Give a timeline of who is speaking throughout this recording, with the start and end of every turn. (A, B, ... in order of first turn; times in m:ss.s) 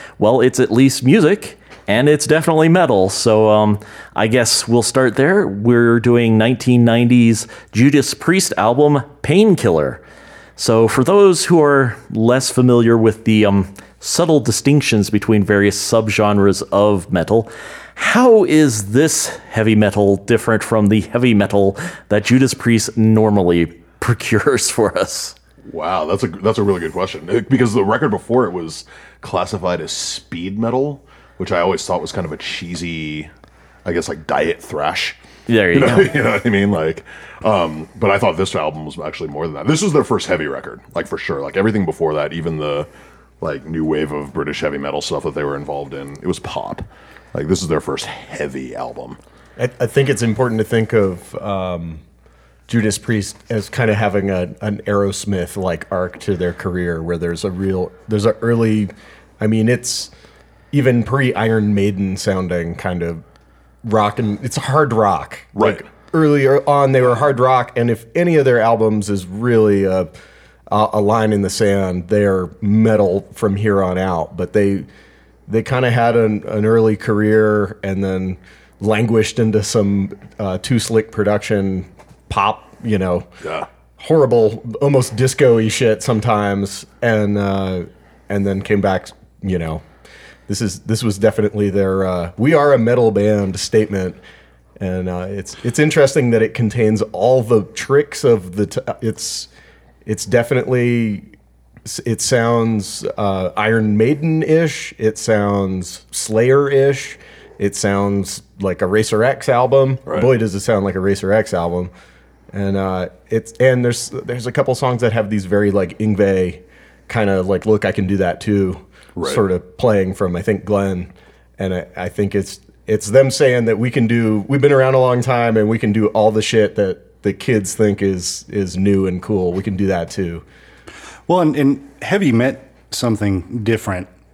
0:00.2-0:10.0 A
0:10.6-0:25.4 A
0:25.7-0:33.3 B
0:33.8-0:35.2 B
0:35.5-0:36.3 A
0:35.7-0:42.9 B
0:43.4-0:49.2 B
0:49.6-0:52.0 C
0:52.7-1:00.1 C
1:00.7-1:03.2 C
1:03.8-1:10.1 C
1:05.6-1:05.8 B
1:10.7-1:14.9 C
1:15.5-1:23.3 C
1:23.4-1:23.7 B
1:24.0-1:29.8 C
1:30.5-1:34.2 C
1:34.8-1:39.5 C
1:40.0-1:41.3 C
1:41.8-1:51.9 C
1:52.5-2:10.4 C
2:11.3-2:14.1 D